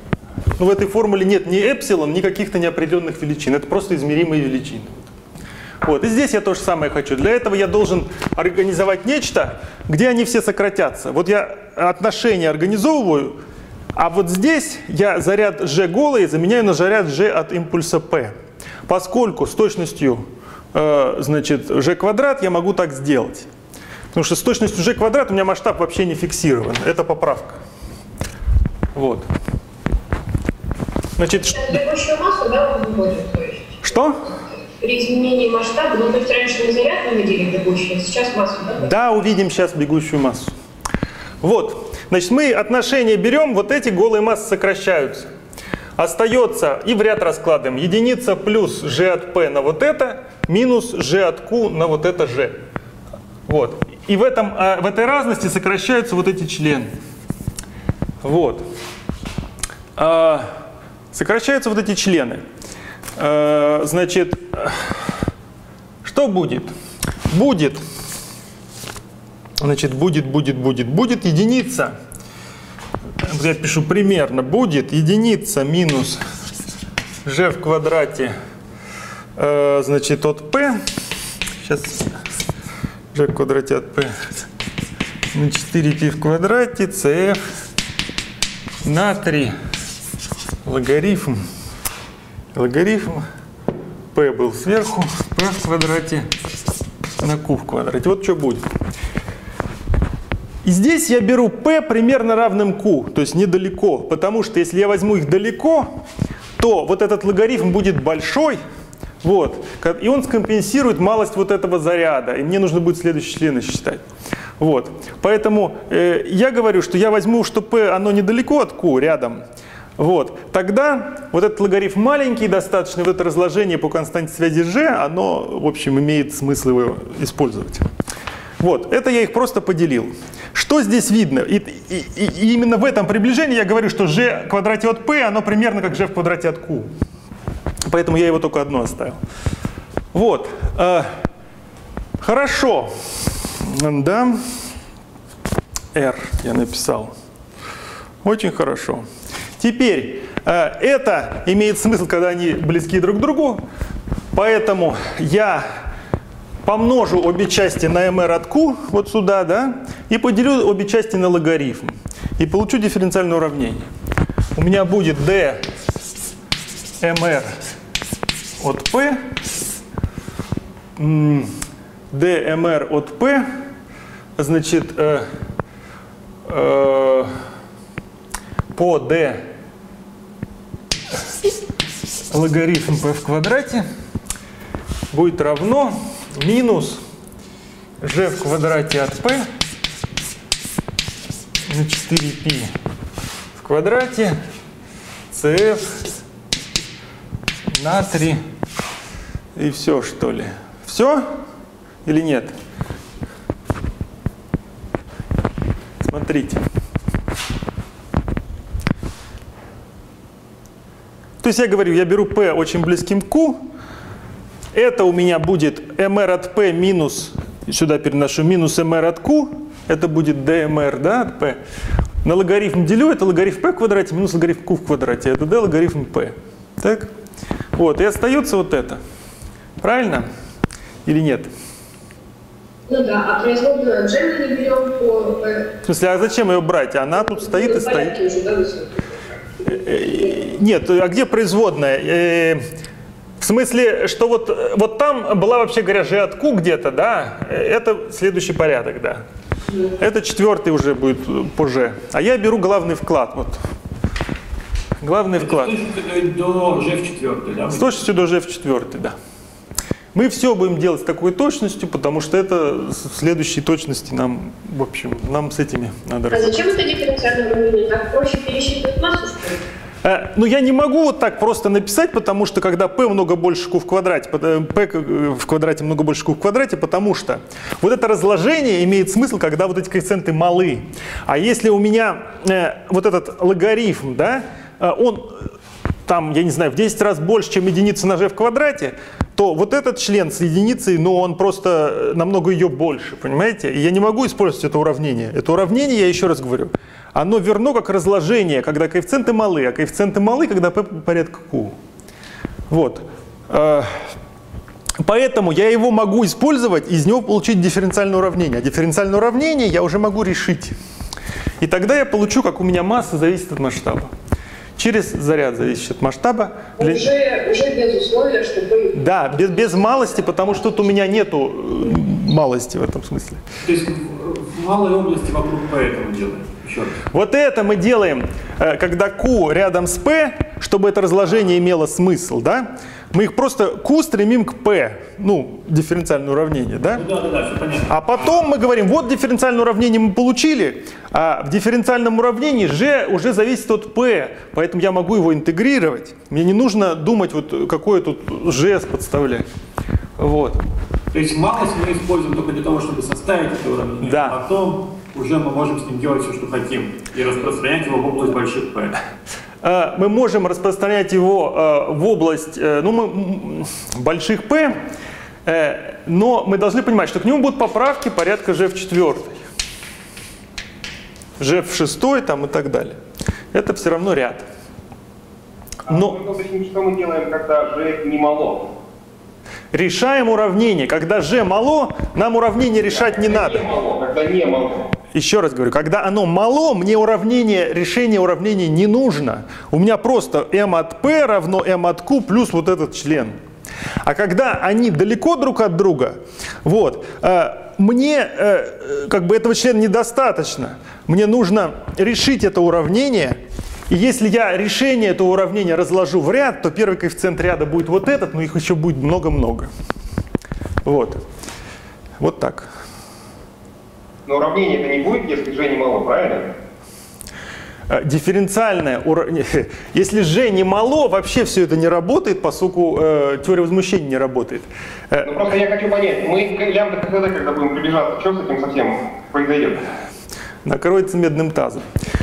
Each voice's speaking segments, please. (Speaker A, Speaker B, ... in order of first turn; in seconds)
Speaker A: 0.6-5.0, 5.8-13.4, 13.9-18.3, 18.9-23.5, 24.1-27.6, 28.9-29.3, 31.2-31.8, 33.8-34.2, 38.8-40.5, 41.4-45.3, 46.0-52.6, 53.5-56.9, 58.2-58.6, 60.0-60.5, 61.1-62.4, 63.1-65.1, 66.0-66.7, 67.3-67.8, 69.6-71.9, 73.2-76.2, 77.2-78.3, 79.4-80.8, 81.6-82.2, 83.1-84.1, 85.3-87.4, 88.8-89.5, 90.6-91.5, 92.5-93.2, 94.1-96.3, 97.2-98.7, 100.6-105.9, 106.6-108.6, 109.2-114.0, 114.6-119.4, 120.0-127.9, 128.6-136.9, 137.9-139.2, 140.1-141.1, 142.2-144.4, 145.9-147.1, 148.2-149.1, 149.6-153.6, 154.3-155.7, 156.6-163.9, 164.6-165.6, 167.0-167.5, 168.6-169.2, 171.0-171.5, 172.1-173.4, 174.4-175.2, 176.4-177.3, 178.7-179.4, 182.3-183.8, 185.1-187.0, 188.0-189.4, 191.7-192.7, 193.5-194.4, 195.3-196.1, 197.7-198.4, 199.6-201.2, 202.0-202.5, 206.0-206.6, 211.4-213.7, 214.7-221.6, 222.2-227.1, 227.7-229.0, 229.8-230.3, 231.1-231.5, 235.8-238.1, 239.6-242.6, 243.4-249.2, 250.0-253.6, 255.0-255.8, 257.7-259.1, 260.1-266.6, 270.0-285.5, 286.1-301.8, 302.7-304.1, 305.0-310.7, 311.6-314.1, 314.8-317.1, 318.9-323.4, 327.1-337.0, 337.9-349.4, 350.2-350.6, 354.0-354.4, 359.6-364.8, 365.4-369.4, 371.4-373.0, 373.5-374.4, 375.9-376.2, 379.7-383.6, 385.1-393.4, 394.0-409.7, 410.8-411.2, 412.2-412.7, 417.9-425.3, 430.6-431.9
Speaker B: 31.5-38.9, 232.9-235.7, 237.4-239.6, 266.3-269.6, 316.8-319.0
Speaker C: 255.4-258.0, 323.6-327.0, 336.9-338.3, 351.1-359.0
Speaker D: 375.9-378.7, 382.9-384.9, 414.2-416.5, 425.2-429.8